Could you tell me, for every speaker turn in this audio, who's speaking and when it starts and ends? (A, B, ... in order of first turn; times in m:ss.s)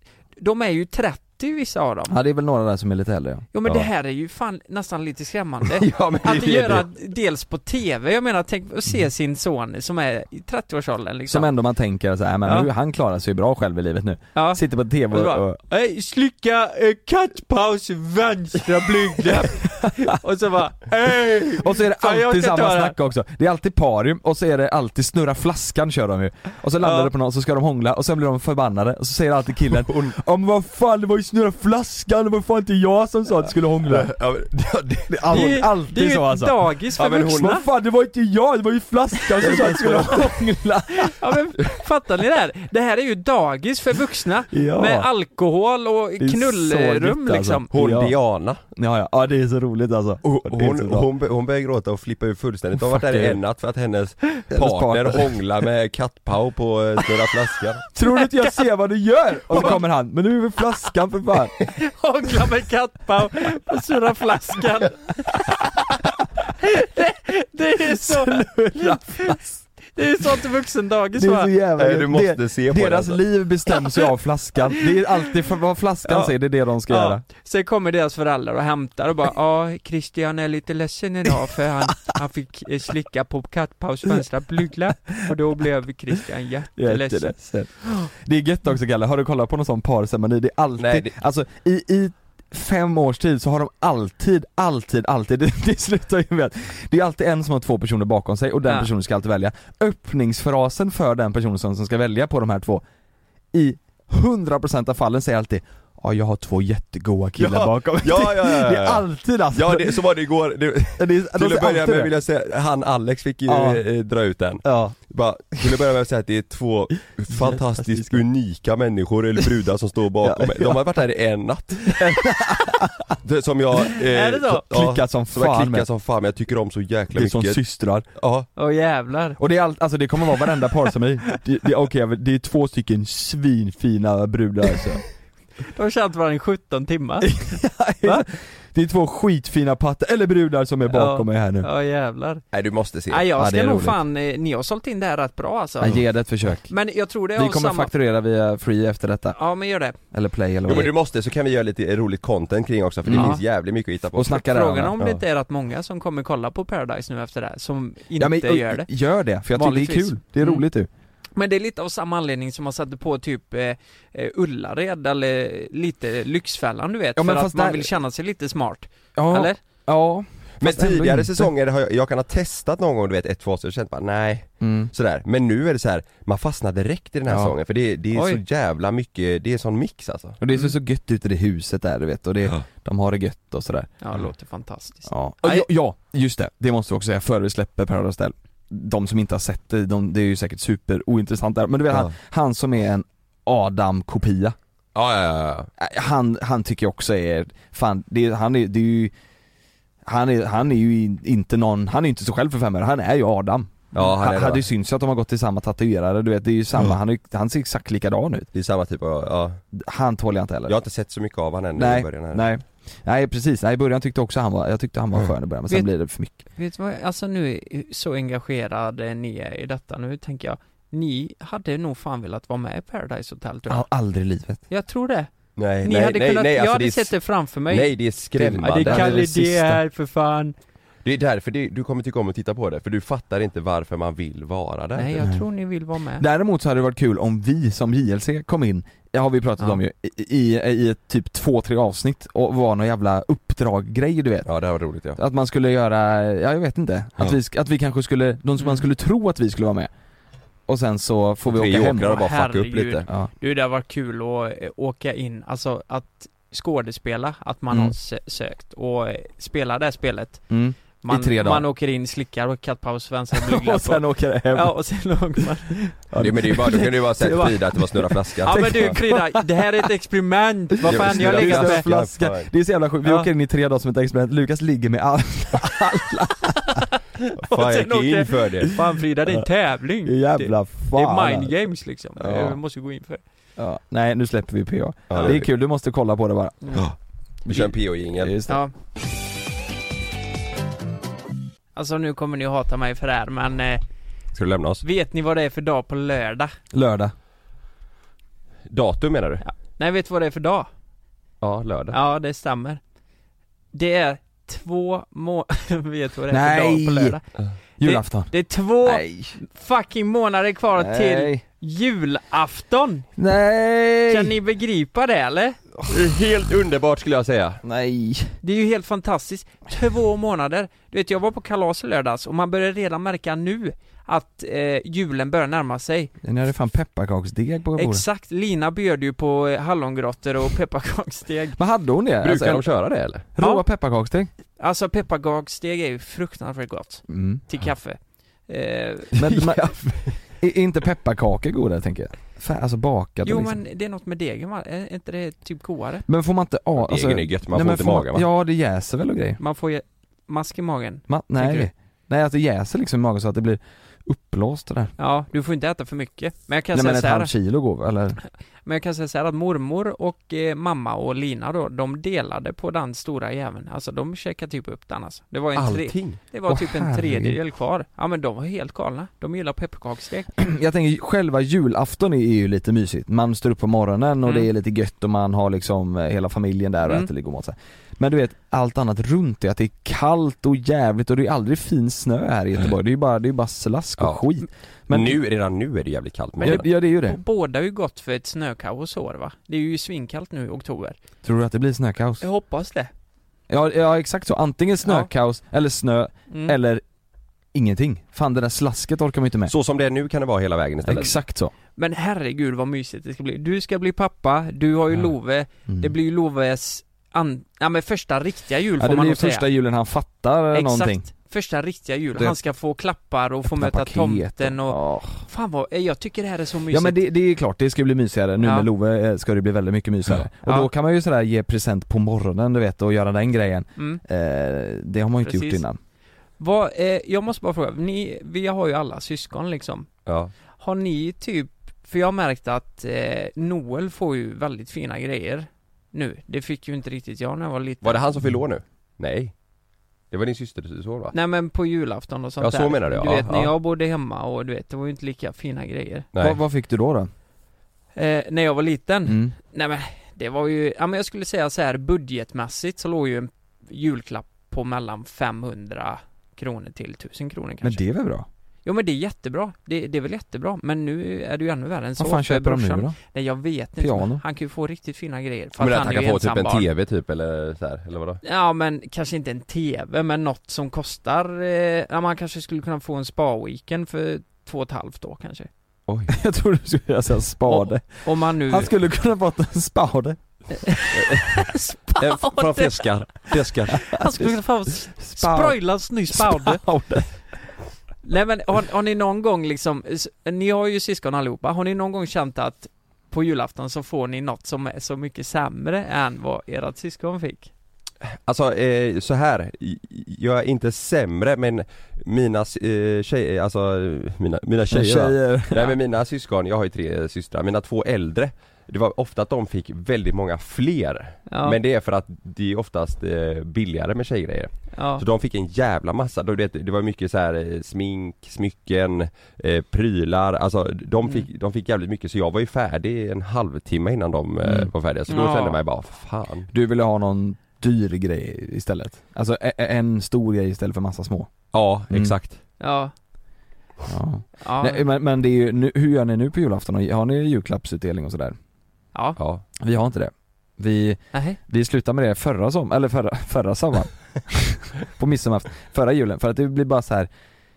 0:00.4-0:02.2 A
0:02.1-0:03.4 B
0:03.5-0:11.5 A
0:05.7-0:06.9 C
0:11.3-0:15.6 B
0:14.4-0:23.0 A
0:19.3-0:20.1 B
0:21.5-0:34.1 B
0:26.8-0:27.1 A
0:29.7-0:30.2 C
0:33.8-0:35.6 C
0:35.1-0:36.6 B
0:35.3-0:37.6 A
0:37.0-0:37.6 C
0:37.2-0:41.4 B
0:39.4-0:40.3 C
0:40.9-0:47.7 A
0:44.5-0:45.1 B
0:46.2-0:48.1 B
0:47.7-0:48.6 C
0:48.8-0:51.1 B
0:50.2-0:57.9 C
0:52.8-0:53.4 B
0:54.5-0:55.4 B
0:57.9-1:01.6 B
0:58.0-0:58.6 A
0:59.5-0:59.8 A
1:01.7-1:11.5 A
1:07.9-1:09.6 B
1:11.2-1:17.2 B
1:11.8-1:13.2 C
1:16.0-1:16.3 A
1:16.9-1:28.1 A
1:26.8-1:42.8 B
1:30.8-1:31.1 C
1:43.5-1:50.0 B
1:47.4-2:02.3 C
1:51.0-1:52.1 B
1:53.5-1:53.8 B
1:54.6-1:55.0 B
1:57.3-1:58.2 B
2:00.2-2:00.8 B
2:01.9-2:03.2 B
2:03.2-2:07.6 C
2:04.1-2:04.7 A
2:04.7-2:05.9 B
2:07.1-2:08.1 B
2:08.2-2:08.5 C
2:08.6-2:09.4 A
2:09.4-2:15.0 B
2:15.7-2:17.4 A
2:17.2-2:21.7 B
2:20.9-2:22.4 A
2:22.5-2:23.3 C
2:23.1-2:26.1 A
2:23.4-2:24.0 B
2:25.8-2:26.7 B
2:26.7-2:27.9 A
2:27.3-2:29.4 B
2:29.3-2:30.0 A
2:30.1-2:30.9 B
2:30.6-2:34.4 C
2:33.1-2:33.4 B
2:33.1-2:33.4 A
2:34.1-2:35.0 B
2:34.3-2:38.9 A
2:38.2-2:40.9 B
2:39.5-2:40.6 A
2:41.4-2:49.6 A
2:47.2-2:47.9 B
2:49.2-2:51.5 B
2:50.6-3:00.4 C
2:54.6-2:54.9 B
2:57.3-2:57.6 B
2:58.1-2:58.4 A
3:00.4-3:03.9 B
3:04.0-3:05.7 A
3:05.1-3:14.6 B
3:15.0-3:15.7 C
3:15.8-3:19.1 B
3:20.0-3:28.5 B
3:23.9-3:24.6 C
3:28.5-3:29.6 C
3:29.7-3:30.8 B
3:30.7-3:32.5 C
3:31.8-3:36.4 B
3:36.4-3:43.9 A
3:43.7-3:44.6 B
3:44.7-3:45.3 A
3:45.6-3:47.1 C
3:45.8-3:48.0 A
3:47.7-3:49.3 C
3:48.4-3:49.8 B
3:48.6-3:50.6 A
3:51.0-3:55.2 C
3:55.0-3:56.2 A
3:55.2-3:55.5 B
3:56.2-4:04.5 B
4:04.5-4:05.2 C
4:05.2-4:09.9 B
4:10.7-4:12.2 B
4:11.5-4:13.1 C
4:12.0-4:20.4 A
4:20.5-4:21.7 B
4:21.0-4:25.9 A
4:23.3-4:24.8 B
4:26.1-4:27.8 B
4:26.2-4:29.0 C
4:27.2-4:27.6 A
4:28.4-4:29.6 B
4:28.4-4:31.9 A
4:30.8-4:36.8 B
4:30.9-4:32.5 C
4:36.6-4:43.2 A
4:37.4-4:38.8 C
4:40.0-4:41.5 B
4:42.2-4:42.6 B
4:43.6-4:46.8 B
4:45.1-4:45.5 C
4:46.7-4:48.4 C
4:47.5-4:48.6 B
4:48.5-4:48.7 A
4:51.8-4:53.8 A
4:54.3-4:54.8 C
4:54.8-4:56.5 A
4:56.7-4:57.1 B
4:58.7-4:59.4 C
4:59.4-5:00.7 A
5:01.4-5:02.0 C
5:01.9-5:02.8 A
5:03.7-5:07.2 A
5:06.3-5:07.2 B
5:07.8-5:08.3 B
5:07.8-5:13.1 A
5:08.8-5:09.4 B
5:10.8-5:11.4 B
5:13.2-5:14.4 B
5:14.1-5:15.6 A
5:15.8-5:17.6 C
5:17.6-5:18.4 B
5:18.4-5:26.1 A
5:26.2-5:28.0 B
5:27.8-5:31.6 A
5:31.6-5:32.7 B
5:32.2-5:33.3 C
5:33.4-5:34.3 B
5:33.4-5:33.6 A
5:34.6-5:39.6 A
5:37.1-5:37.4 B
5:39.2-5:43.6 B
5:43.2-5:46.0 A
5:46.1-5:49.4 B
5:46.8-5:48.3 C
5:49.4-5:51.7 A
5:51.1-5:54.9 B
5:55.0-5:57.3 A
5:56.7-5:58.2 B
5:58.2-6:10.3 A
6:05.6-6:06.2 C
6:06.5-6:07.4 B
6:10.4-6:25.2 B
6:24.0-6:24.2 C
6:24.9-6:26.7 C
6:26.4-6:27.2 B
6:26.4-6:31.0 A
6:31.2-6:32.2 B
6:32.2-6:32.9 A
6:33.5-6:36.8 B
6:34.8-6:35.1 A
6:36.3-6:36.6 A
6:37.5-6:39.5 B
6:39.5-6:41.2 C
6:40.8-6:41.5 B
6:41.8-6:49.5 A
6:45.7-6:45.9 B
6:48.8-6:51.1 B
6:50.5-6:57.0 A
6:53.5-6:55.2 B
6:56.7-7:05.8 B
6:58.4-6:58.7 A
7:05.2-7:05.6 A
7:06.4-7:09.9 A
7:10.1-7:10.3 C
7:10.6-7:18.0 A
7:17.8-7:19.3 C
7:20.1-7:21.1 C
7:21.1-7:26.1 A
7:22.4-7:23.5 C
7:26.1-7:26.4 C
7:26.2-7:27.1 B
7:28.0-7:37.8 A
7:29.1-7:29.4 B
7:37.6-7:38.3 B
7:38.6-7:46.7 A
7:42.0-7:43.0 B
7:43.8-7:44.2 B
7:45.6-7:48.2 C
7:48.2-7:55.5 A
7:55.9-7:56.2 C
7:56.1-8:00.2 B
7:57.4-7:58.7 A
8:00.6-8:02.9 A
8:01.0-8:01.2 C
8:02.0-8:04.0 C
8:03.9-8:06.6 A
8:05.0-8:07.2 B
8:08.0-8:17.5 A
8:18.0-8:46.5 C
8:24.7-8:25.7 B
8:31.3-8:31.6 A
8:34.7-8:35.0 A
8:44.4-8:44.7 B
8:45.1-8:45.6 A
8:46.5-8:51.3 B
8:51.5-8:52.4 C
8:52.6-8:52.9 A
8:53.9-8:58.4 B
8:54.4-8:54.8 A
8:59.2-8:59.4 C
8:59.6-9:07.1 B
9:01.1-9:01.4 A